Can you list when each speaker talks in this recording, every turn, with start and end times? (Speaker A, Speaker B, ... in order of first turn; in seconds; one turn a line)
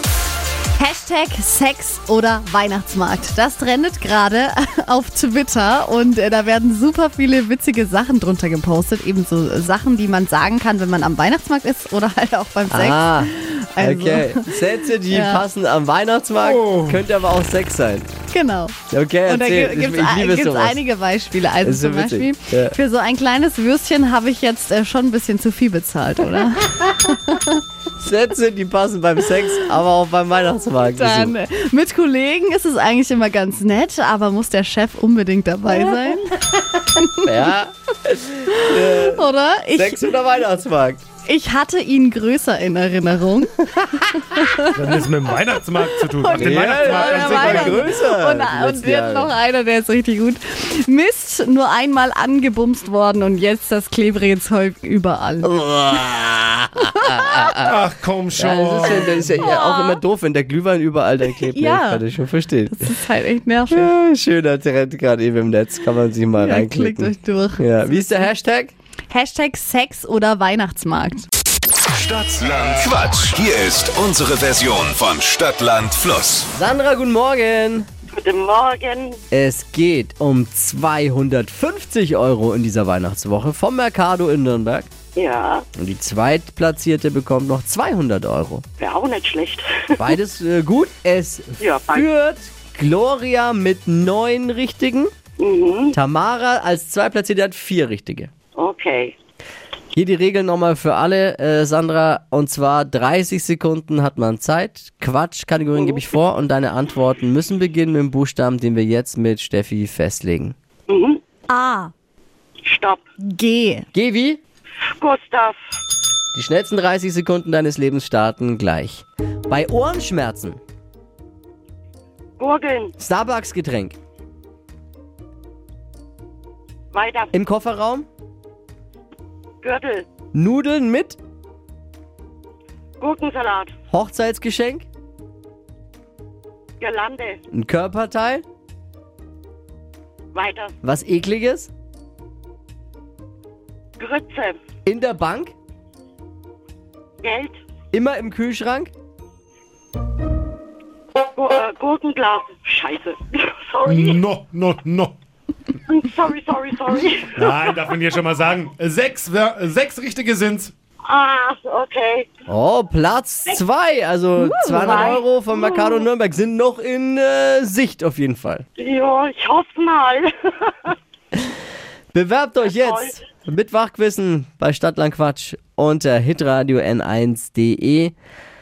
Speaker A: 0.8-15.4
Speaker B: 12.7-18.1
Speaker C: 16.4-17.0
Speaker A: 18.3-27.6
Speaker B: 18.9-20.8
Speaker B: 21.6-22.7
Speaker B: 28.0-31.3
Speaker A: 30.9-37.5
Speaker B: 35.7-36.2
Speaker B: 37.2-41.0
Speaker A: 38.5-40.1
Speaker A: 41.2-45.0
Speaker C: 44.7-47.9
Speaker A: 45.7-55.5
Speaker B: 46.3-49.3
Speaker B: 55.4-57.7
Speaker A: 56.9-57.5
Speaker C: 57.6-59.5
Speaker B: 58.3-62.9
Speaker A: 59.0-60.0
Speaker A: 61.4-63.9
Speaker B: 63.7-68.7
Speaker A: 66.4-67.8
Speaker A: 69.1-71.3
Speaker D: 71.9-76.5
Speaker B: 76.5-77.9
Speaker E: 78.1-79.2
Speaker B: 79.3-84.9
Speaker E: 85.1-85.6
Speaker B: 85.8-88.6
Speaker E: 88.8-90.1
Speaker B: 90.0-95.1
Speaker E: 91.6-92.1
Speaker E: 95.4-95.9
Speaker B: 95.9-98.3
Speaker E: 98.5-99.1
Speaker B: 99.9-110.5
Speaker E: 110.9-111.2
Speaker A: 111.5-111.9
Speaker E: 112.6-113.0
Speaker A: 113.2-113.8
Speaker B: 113.9-114.4
Speaker E: 114.9-115.6
Speaker B: 116.3-120.6
Speaker E: 122.4-122.9
Speaker B: 123.0-123.9
Speaker E: 126.9-127.3
Speaker B: 127.3-128.1
Speaker E: 129.6-130.1
Speaker B: 130.3-131.2
Speaker E: 133.0-133.7
Speaker B: 133.9-134.9
Speaker E: 136.8-137.4
Speaker B: 137.5-138.4
Speaker E: 140.3-140.8
Speaker B: 140.8-141.7
Speaker E: 144.0-144.6
Speaker B: 144.8-145.5
Speaker E: 147.2-147.6
Speaker B: 147.9-148.9
Speaker E: 151.3-154.2
Speaker C: 153.8-155.2
Speaker E: 155.9-157.5
Speaker C: 157.3-160.7
Speaker E: 161.0-162.3
Speaker B: 162.5-168.6
Speaker A: 164.4-165.2
Speaker E: 168.8-170.9
Speaker B: 172.1-178.1
Speaker E: 172.7-173.1